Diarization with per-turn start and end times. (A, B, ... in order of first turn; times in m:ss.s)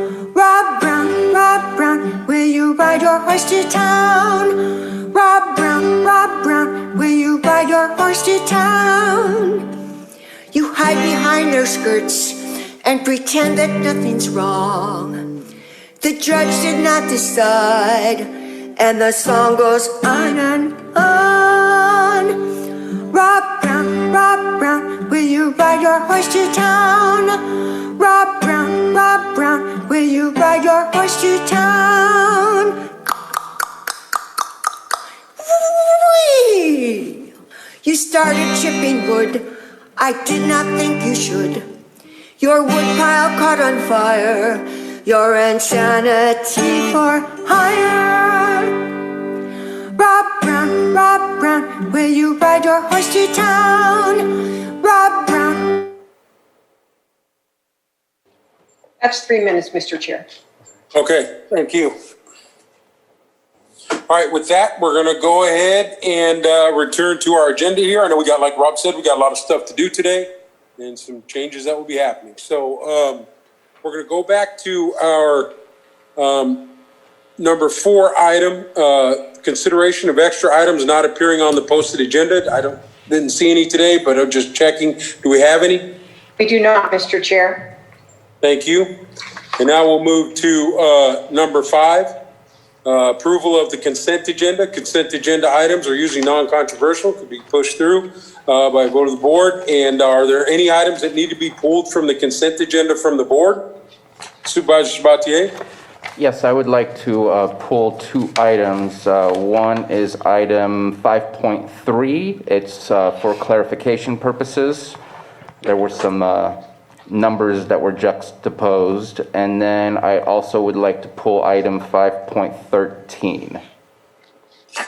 0:00.3-0:09.7 A
0:10.5-0:15.3 A
0:16.0-0:32.8 A
0:35.4-0:37.3 A
0:37.8-0:41.6 A
0:42.4-0:48.9 A
0:50.0-0:55.9 A
0:59.0-1:00.2 B
1:00.9-1:01.9 C
1:04.1-1:13.3 C
1:13.8-1:15.5 C
1:16.2-1:16.6 C
1:17.4-1:25.9 C
1:26.4-1:27.6 B
1:28.4-1:28.9 C
1:29.6-1:32.1 C
1:32.8-1:43.6 C
1:44.4-1:45.5 C
1:46.2-1:55.0 D
1:55.6-1:56.6 D
1:57.1-2:03.6 D